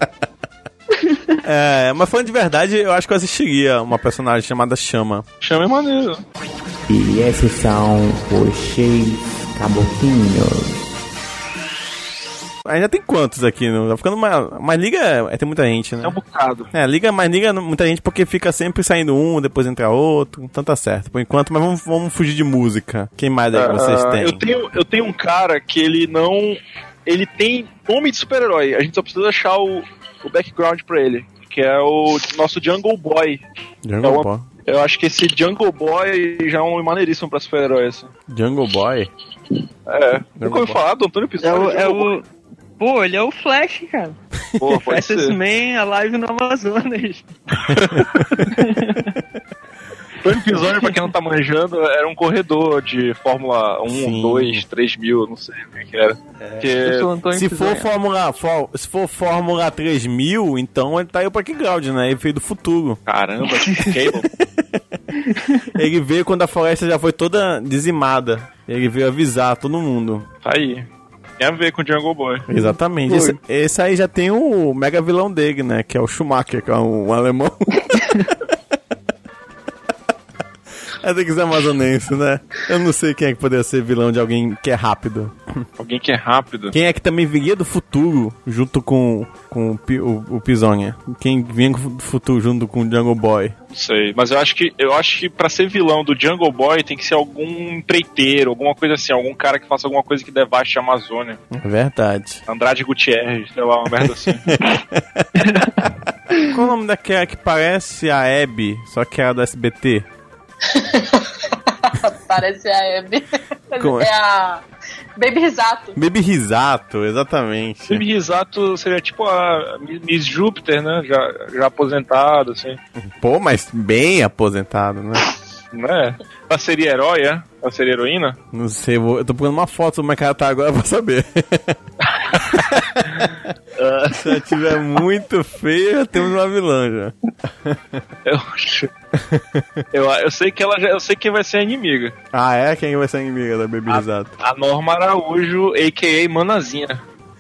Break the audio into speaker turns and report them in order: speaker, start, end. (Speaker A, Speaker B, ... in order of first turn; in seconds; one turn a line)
Speaker A: 1.0-1.4
Speaker B: 1.4-5.2
Speaker C: 5.4-6.2
Speaker D: 6.9-10.8
Speaker B: 12.7-16.2
Speaker C: 16.0-16.7
Speaker B: 16.7-24.4
Speaker C: 23.5-33.4
Speaker B: 33.8-34.5
Speaker C: 34.0-38.1
Speaker B: 38.3-39.1
Speaker C: 39.9-42.1
Speaker B: 40.4-40.8
Speaker A: 41.4-42.3
Speaker A: 42.8-44.2
Speaker C: 44.6-45.4
Speaker A: 44.8-49.2
Speaker C: 50.2-57.1
Speaker A: 50.5-51.0
Speaker B: 53.9-54.6
Speaker A: 56.8-57.9
Speaker B: 57.3-63.0
Speaker C: 63.1-64.3
Speaker A: 63.5-63.9
Speaker A: 65.2-65.7
Speaker B: 65.8-70.3
Speaker C: 70.4-70.9
Speaker C: 71.4-72.5
Speaker B: 72.5-77.7
Speaker A: 72.5-73.4
Speaker A: 77.9-78.3
Speaker B: 81.0-85.3
Speaker C: 85.8-86.8
Speaker B: 86.7-93.6
Speaker C: 93.7-101.4
Speaker B: 101.5-102.4
Speaker C: 102.5-104.4
Speaker B: 104.5-105.3
Speaker A: 105.4-105.7
Speaker B: 106.5-110.1
Speaker E: 110.7-114.6
Speaker B: 113.8-114.1
Speaker E: 115.2-116.0
Speaker B: 116.0-118.0
Speaker C: 117.9-122.8
Speaker B: 123.0-125.2
Speaker C: 125.7-128.4
Speaker B: 128.5-131.8
Speaker C: 132.1-132.6
Speaker B: 132.5-133.2
Speaker C: 133.8-134.5
Speaker B: 134.1-137.1
Speaker B: 137.7-138.0
Speaker C: 138.2-138.9
Speaker B: 139.2-139.7
Speaker C: 139.9-142.1
Speaker B: 142.3-144.3
Speaker C: 143.9-147.0